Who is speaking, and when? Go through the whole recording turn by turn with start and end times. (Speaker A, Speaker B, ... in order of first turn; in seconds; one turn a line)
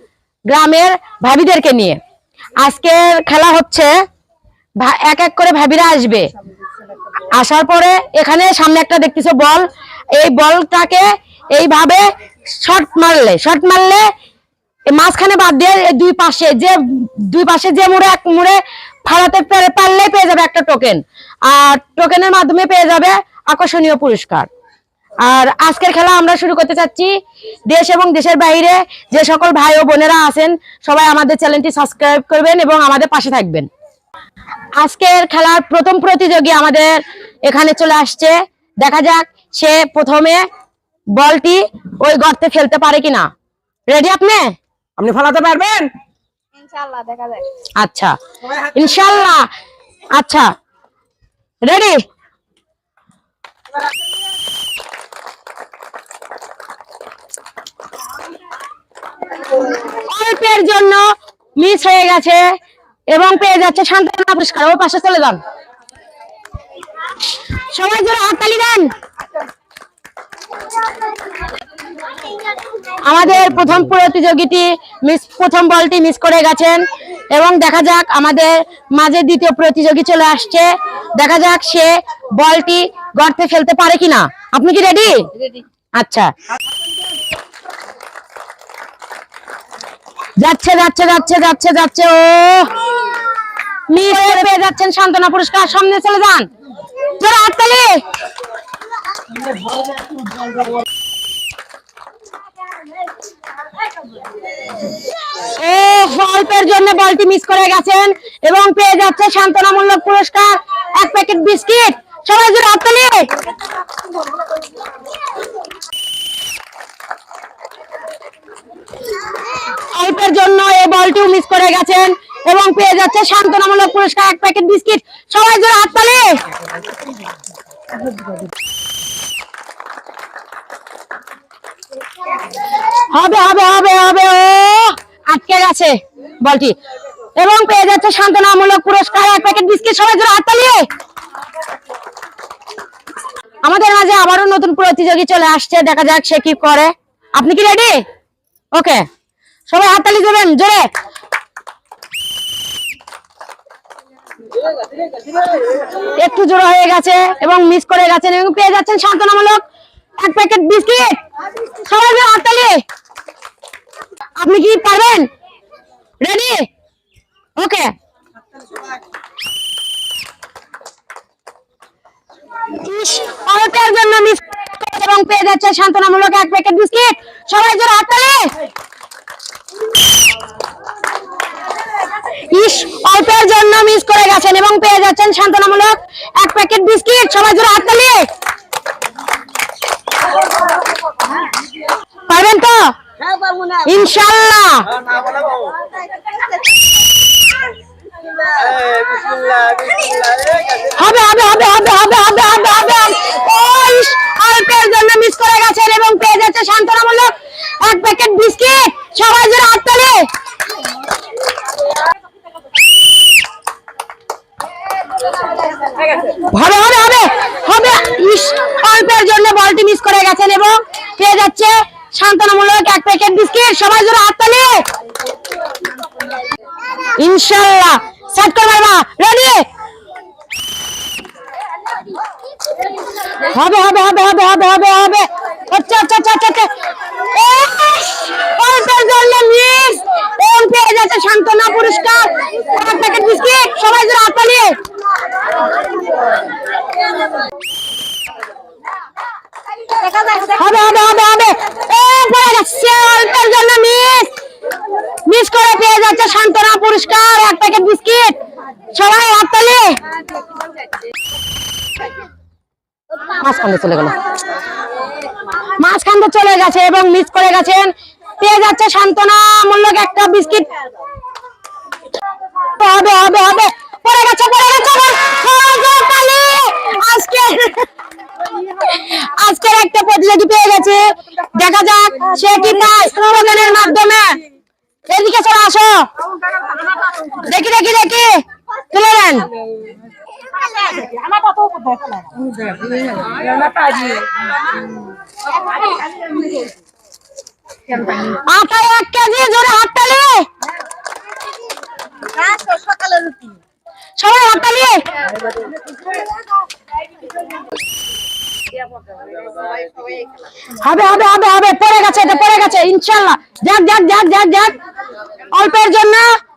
Speaker A: 0.5-2.0
Speaker A: 2.6-3.9
Speaker A: 4.8-6.3
Speaker A: 7.3-12.1
Speaker A: 12.6-14.1
Speaker A: 14.9-24.5
Speaker A: 25.3-27.1
Speaker A: 27.7-33.7
Speaker A: 34.8-40.5
Speaker A: 41.1-43.3
Speaker A: 43.9-45.9
Speaker B: 46.6-47.5
Speaker A: 47.8-49.5
Speaker A: 50.1-50.5
Speaker A: 51.6-52.0
Speaker A: 59.8-61.1
Speaker A: 61.6-62.5
Speaker A: 63.1-65.4
Speaker A: 67.7-68.9
Speaker A: 73.0-86.3
Speaker A: 90.4-92.7
Speaker A: 93.9-96.5
Speaker A: 97.2-98.0
Speaker A: 105.4-113.3
Speaker A: 119.8-126.4
Speaker A: 133.1-136.8
Speaker A: 137.4-140.9
Speaker A: 143.6-148.0
Speaker A: 148.8-149.1
Speaker A: 149.7-150.9
Speaker A: 156.1-159.6
Speaker A: 160.2-161.2
Speaker A: 161.8-162.8
Speaker A: 164.4-165.3
Speaker A: 166.2-166.7
Speaker A: 167.6-167.9
Speaker A: 172.7-178.5
Speaker A: 182.4-188.2
Speaker A: 192.3-192.9
Speaker B: 193.3-193.7
Speaker A: 193.8-194.9
Speaker B: 198.6-200.6
Speaker A: 200.8-210.2
Speaker A: 216.3-224.8
Speaker A: 227.2-229.6
Speaker A: 233.4-236.7
Speaker A: 237.2-244.8
Speaker B: 250.1-250.4
Speaker A: 250.4-254.3
Speaker A: 255.3-258.4
Speaker A: 258.9-260.0
Speaker A: 263.3-264.2
Speaker A: 265.6-270.7
Speaker A: 272.8-277.9
Speaker A: 278.6-284.4
Speaker A: 285.1-286.1
Speaker A: 287.3-289.5
Speaker B: 290.6-292.3
Speaker B: 292.9-294.3
Speaker B: 295.7-296.7
Speaker A: 298.1-300.5
Speaker B: 302.2-303.6
Speaker A: 304.2-305.0
Speaker A: 310.8-314.8
Speaker A: 315.5-316.3